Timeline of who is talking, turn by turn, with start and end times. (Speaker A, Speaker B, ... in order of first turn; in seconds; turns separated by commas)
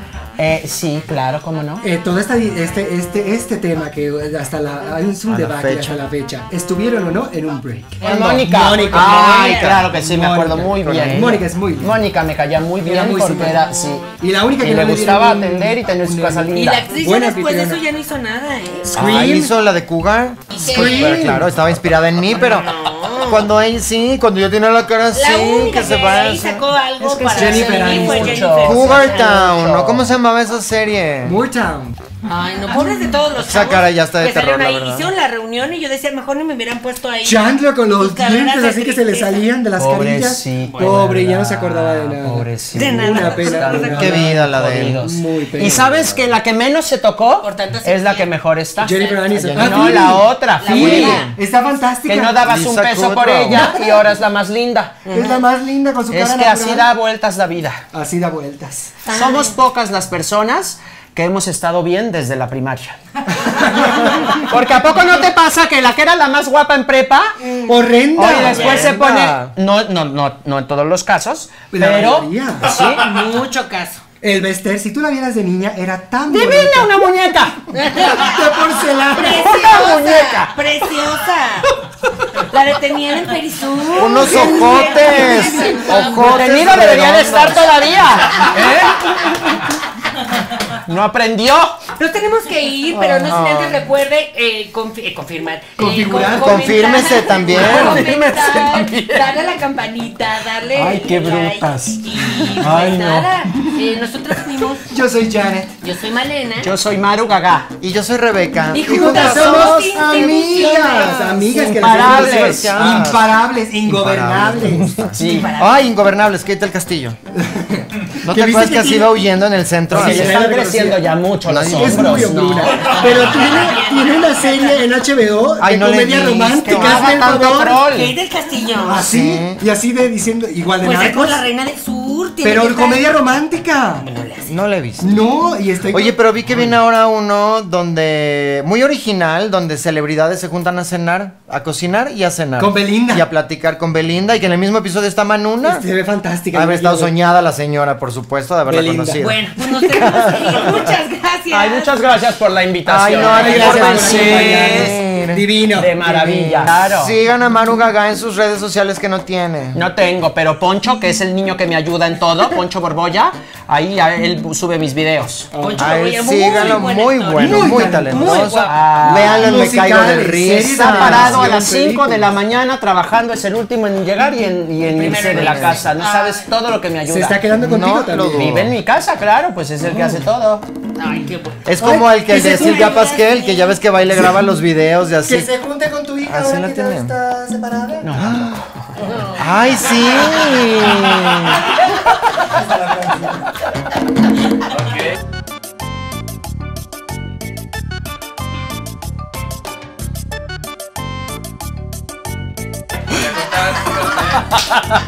Speaker A: 0.4-1.8, Speaker B: 1.8-12.0, Speaker C: 5.3-6.0, Speaker A: 8.0-14.1, Speaker D: 8.0-8.3, Speaker D: 8.9-9.7, Speaker C: 8.9-9.9, Speaker C: 10.8-11.3, Speaker B: 12.8-13.6, Speaker B: 14.2-17.8, Speaker A: 14.6-16.9, Speaker D: 16.6-18.9, Speaker B: 18.9-19.5, Speaker C: 18.9-26.6, Speaker D: 20.5-21.2, Speaker B: 20.5-21.5, Speaker D: 22.4-23.5, Speaker D: 25.1-29.5, Speaker A: 27.0-30.1, Speaker B: 27.3-28.6, Speaker C: 28.6-31.4, Speaker B: 31.2-32.0, Speaker D: 32.2-39.5, Speaker C: 33.4-35.1, Speaker B: 37.2-46.1, Speaker A: 39.8-51.4, Speaker D: 40.7-41.0, Speaker D: 42.8-44.3, Speaker C: 44.0-45.0, Speaker C: 45.6-46.4, Speaker D: 47.4-48.3, Speaker B: 48.8-52.4, Speaker D: 48.9-49.2, Speaker C: 49.3-50.1, Speaker D: 50.6-51.4, Speaker A: 52.1-55.0, Speaker C: 52.4-53.8, Speaker B: 53.5-54.0, Speaker D: 55.0-55.4, Speaker B: 55.1-56.9, Speaker A: 56.1-57.8, Speaker B: 57.9-59.0, Speaker D: 59.0-59.5, Speaker A: 59.1-63.0, Speaker B: 63.3-64.5, Speaker A: 63.8-67.4, Speaker B: 67.7-68.8, Speaker A: 68.2-73.1, Speaker C: 68.4-69.5, Speaker B: 71.7-72.8, Speaker D: 72.7-74.0, Speaker B: 74.2-76.9, Speaker A: 76.3-77.7, Speaker D: 77.7-78.4, Speaker B: 78.0-79.5, Speaker D: 79.1-81.7, Speaker A: 79.3-81.1, Speaker D: 82.4-86.5, Speaker C: 83.9-87.7, Speaker A: 84.5-89.7, Speaker A: 90.8-91.8, Speaker D: 92.0-104.9, Speaker C: 92.9-93.8, Speaker B: 95.8-96.8, Speaker C: 96.4-98.1, Speaker A: 97.4-99.3, Speaker A: 100.7-103.3, Speaker B: 103.5-103.8, Speaker B: 104.8-105.8, Speaker D: 105.8-106.7, Speaker A: 106.6-107.7, Speaker C: 107.8-111.3, Speaker D: 108.7-111.5, Speaker B: 108.8-115.2, Speaker A: 111.5-113.1, Speaker C: 111.8-113.3, Speaker C: 113.9-117.2, Speaker A: 115.1-115.5, Speaker D: 115.2-115.9, Speaker B: 117.4-119.2, Speaker C: 118.2-120.4, Speaker B: 119.9-127.8, Speaker A: 119.9-122.9, Speaker C: 121.4-122.5, Speaker D: 122.7-124.8, Speaker C: 125.6-127.5, Speaker A: 126.6-128.2, Speaker D: 127.8-129.1, Speaker B: 128.8-131.4, Speaker C: 129.0-129.6, Speaker D: 130.8-133.1, Speaker B: 132.4-134.1, Speaker D: 134.0-134.5, Speaker C: 134.5-135.2, Speaker B: 135.0-136.7, Speaker C: 135.9-145.8, Speaker B: 142.6-143.3, Speaker B: 145.6-147.1, Speaker C: 146.5-149.4, Speaker B: 148.7-150.3, Speaker D: 149.2-151.9, Speaker C: 150.0-150.8, Speaker A: 151.5-155.0, Speaker C: 152.8-155.4, Speaker B: 153.1-156.8, Speaker A: 155.7-157.2, Speaker C: 156.9-159.9, Speaker A: 159.8-165.5, Speaker B: 165.5-165.9, Speaker D: 165.6-168.8, Speaker C: 165.8-171.5, Speaker B: 167.4-168.4, Speaker A: 168.7-169.6, Speaker B: 169.0-172.3, Speaker A: 170.9-177.4, Speaker D: 174.9-176.5, Speaker C: 175.2-175.9, Speaker B: 177.1-178.7, Speaker C: 177.6-178.8, Speaker A: 178.3-180.7, Speaker C: 179.9-180.2, Speaker D: 181.0-181.7, Speaker C: 181.7-185.5, Speaker B: 181.8-182.4, Speaker D: 182.3-183.8, Speaker B: 185.2-188.2, Speaker C: 186.3-187.1, Speaker A: 188.0-188.5, Speaker C: 188.2-188.7, Speaker D: 189.0-190.5, Speaker C: 189.3-191.7, Speaker B: 192.5-193.4